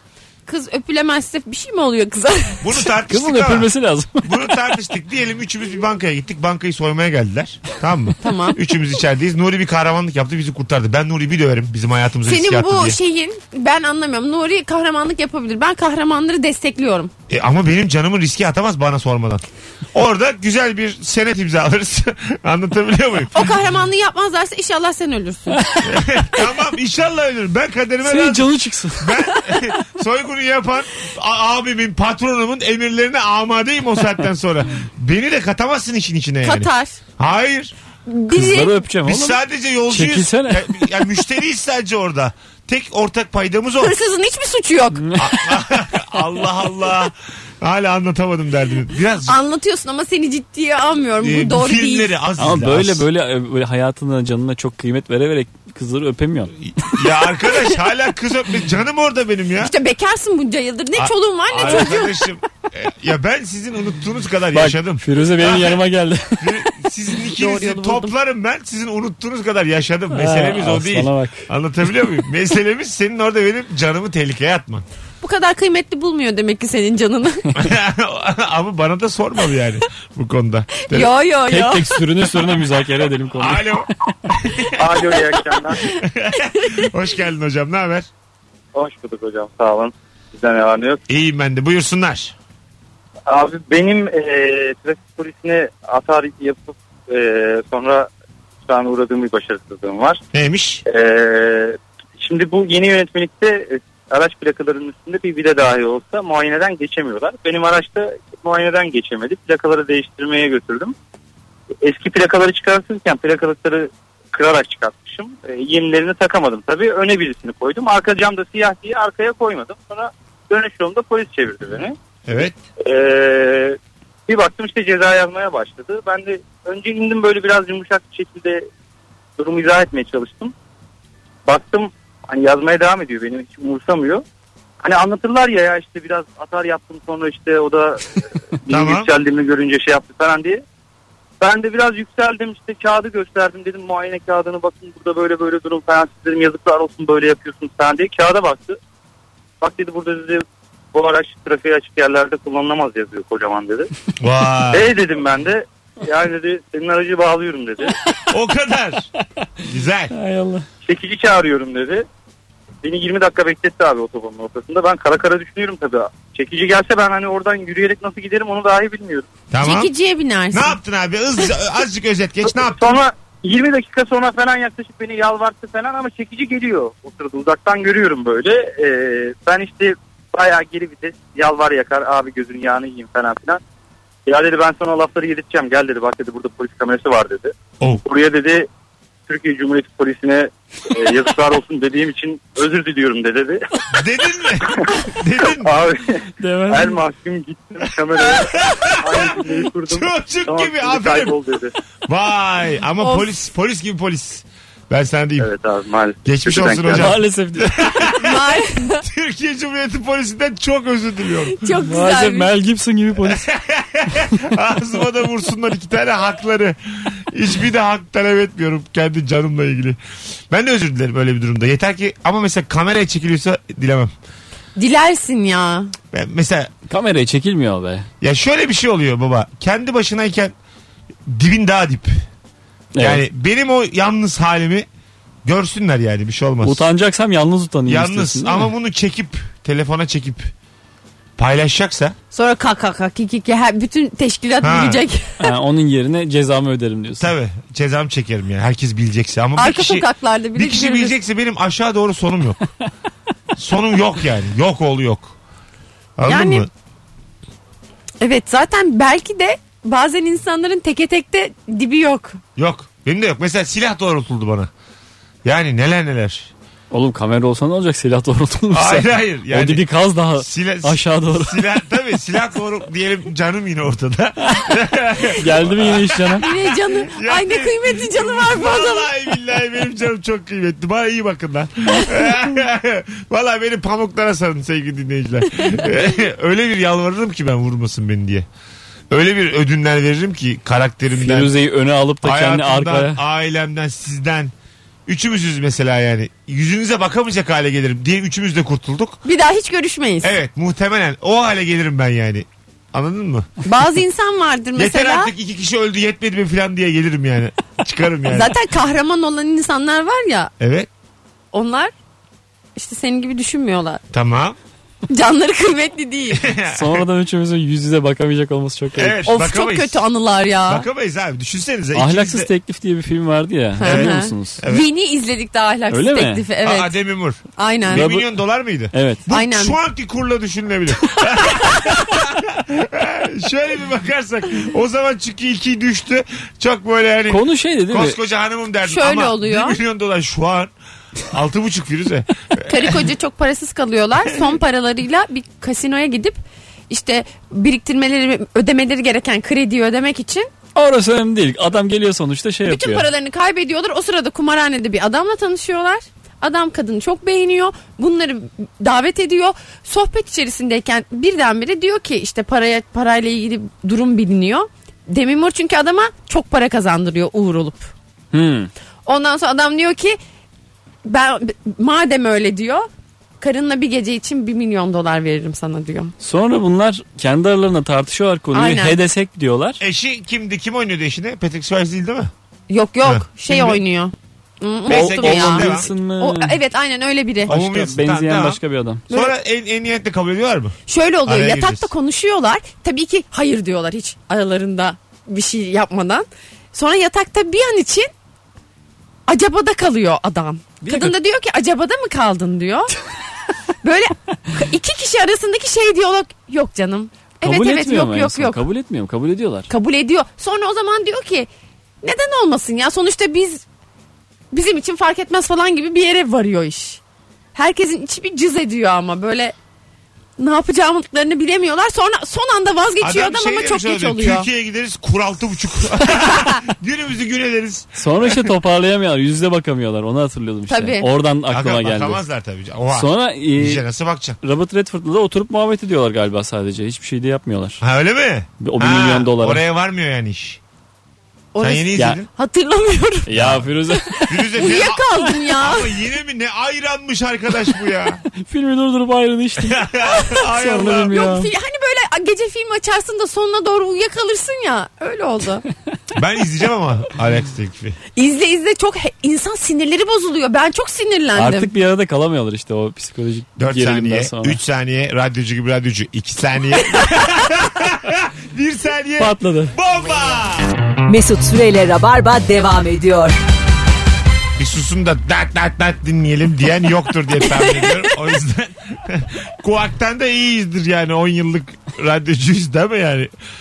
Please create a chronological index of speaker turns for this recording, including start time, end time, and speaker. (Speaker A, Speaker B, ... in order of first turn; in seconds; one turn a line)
Speaker A: 0.5-2.8
Speaker B: 2.6-3.7
Speaker C: 3.1-4.3
Speaker B: 4.2-13.0
Speaker A: 8.2-8.6
Speaker A: 12.3-17.1
Speaker B: 17.3-23.5
Speaker A: 23.3-25.9
Speaker B: 25.8-37.8
Speaker C: 28.0-29.3
Speaker A: 36.4-37.0
Speaker A: 38.1-38.8
Speaker C: 38.3-40.9
Speaker B: 39.0-43.9
Speaker A: 43.8-45.1
Speaker C: 45.0-45.4
Speaker B: 45.2-49.4
Speaker A: 49.3-52.1
Speaker B: 51.2-53.0
Speaker C: 52.4-57.0
Speaker B: 56.6-59.7
Speaker A: 59.6-62.1
Speaker B: 61.0-65.8
Speaker C: 64.5-66.7
Speaker B: 66.4-74.8
Speaker A: 67.3-68.1
Speaker C: 70.1-71.5
Speaker A: 75.2-77.5
Speaker B: 77.5-81.1
Speaker A: 80.9-82.0
Speaker C: 81.5-83.8
Speaker B: 83.3-85.2
Speaker D: 84.8-85.8
Speaker B: 86.0-88.1
Speaker D: 88.7-91.0
Speaker B: 91.1-92.3
Speaker D: 93.3-98.1
Speaker D: 98.7-100.2
Speaker B: 100.3-100.8
Speaker D: 100.9-111.0
Speaker D: 111.8-128.7
Speaker B: 122.3-122.6
Speaker D: 129.4-130.5
Speaker D: 131.5-134.2
Speaker D: 134.8-140.6
Speaker B: 138.7-139.1
Speaker D: 141.4-148.8
Speaker D: 149.6-153.9
Speaker B: 154.2-154.9
Speaker D: 154.7-158.0
Speaker B: 158.3-159.1
Speaker B: 159.7-160.2
Speaker C: 160.1-160.7
Speaker D: 160.8-162.1
Speaker D: 162.8-169.3
Speaker B: 169.5-169.9
Speaker A: 169.6-170.8
Speaker B: 170.5-172.9
Speaker D: 172.4-183.6
Speaker D: 184.3-187.5
Speaker D: 188.1-188.7
Speaker D: 189.3-193.6
Speaker B: 193.9-195.8
Speaker D: 195.5-201.7
Speaker C: 196.4-197.0
Speaker B: 198.4-201.4
Speaker B: 202.1-205.5
Speaker A: 203.0-203.3
Speaker D: 205.4-207.1
Speaker B: 206.2-211.7
Speaker C: 206.9-207.7
Speaker A: 208.1-209.0
Speaker A: 211.5-212.5
Speaker C: 211.9-213.5
Speaker B: 213.2-220.0
Speaker B: 220.5-224.1
Speaker A: 224.8-225.9
Speaker B: 226.1-226.7
Speaker C: 226.9-228.1
Speaker B: 228.2-230.5
Speaker B: 231.3-232.2
Speaker C: 232.9-233.2
Speaker B: 233.0-234.9
Speaker B: 235.4-236.8
Speaker C: 236.6-238.7
Speaker B: 237.9-240.5
Speaker B: 241.4-242.2
Speaker A: 242.3-245.5
Speaker B: 244.6-245.0
Speaker C: 245.4-247.3
Speaker B: 247.2-252.6
Speaker A: 249.6-251.2
Speaker B: 253.6-255.4
Speaker B: 256.2-256.7
Speaker A: 256.3-256.7
Speaker A: 258.2-262.4
Speaker B: 262.6-264.7
Speaker B: 265.4-266.5
Speaker C: 266.9-271.6
Speaker B: 268.7-269.9
Speaker B: 270.4-288.5
Speaker C: 275.4-276.4
Speaker A: 276.4-279.1
Speaker B: 289.1-291.6
Speaker C: 291.2-293.2
Speaker B: 292.2-294.5
Speaker B: 295.1-299.2
Speaker A: 299.2-300.3
Speaker B: 300.2-303.5
Speaker A: 303.6-305.3
Speaker B: 304.8-308.5
Speaker A: 308.3-310.5
Speaker B: 310.6-310.9
Speaker A: 311.5-311.9
Speaker A: 312.8-314.0
Speaker B: 314.1-314.6
Speaker A: 315.1-316.4
Speaker B: 316.3-317.0
Speaker C: 316.7-319.2
Speaker B: 319.0-320.1
Speaker A: 319.3-320.9
Speaker B: 320.7-322.5
Speaker C: 321.9-324.6
Speaker A: 323.8-326.9
Speaker B: 323.8-324.9
Speaker C: 325.9-326.4
Speaker B: 326.6-340.7
Speaker A: 327.6-328.0
Speaker C: 327.9-328.3
Speaker C: 328.9-329.2
Speaker A: 329.3-329.8
Speaker C: 337.3-338.2
Speaker A: 338.8-339.8
Speaker B: 341.2-343.0
Speaker A: 342.7-350.5
Speaker C: 350.8-353.1
Speaker A: 352.7-367.9
Speaker C: 368.3-368.7
Speaker A: 369.1-370.2
Speaker A: 371.1-372.9
Speaker A: 373.4-376.1
Speaker C: 376.2-379.8
Speaker A: 378.5-379.0
Speaker B: 379.8-382.3
Speaker A: 382.7-387.5
Speaker B: 383.0-383.8
Speaker B: 384.9-385.9
Speaker C: 384.9-386.6
Speaker B: 387.5-391.9
Speaker C: 387.5-389.0
Speaker A: 390.9-398.1
Speaker A: 399.3-402.9
Speaker C: 400.8-401.1
Speaker A: 403.8-408.6
Speaker C: 407.4-409.7
Speaker A: 409.7-411.5
Speaker A: 412.0-413.6
Speaker A: 414.5-417.0
Speaker A: 417.6-419.6
Speaker A: 420.4-424.5
Speaker B: 423.0-428.5
Speaker C: 428.0-432.2
Speaker A: 430.7-431.1
Speaker B: 431.5-434.4
Speaker C: 432.9-433.8
Speaker C: 434.4-437.8
Speaker B: 437.8-440.6
Speaker C: 438.6-439.6
Speaker A: 441.5-443.3
Speaker B: 441.6-442.3
Speaker C: 443.3-444.5
Speaker B: 443.3-443.7
Speaker A: 444.2-446.0
Speaker B: 444.3-448.2
Speaker C: 448.4-449.9
Speaker B: 449.6-451.2
Speaker A: 450.0-450.5
Speaker C: 450.4-451.5
Speaker A: 451.1-455.6
Speaker B: 456.1-458.0
Speaker A: 458.1-461.7
Speaker C: 461.4-464.6
Speaker B: 463.6-470.7
Speaker C: 469.2-469.8
Speaker E: 471.1-473.4
Speaker B: 474.6-483.3
Speaker A: 477.5-478.0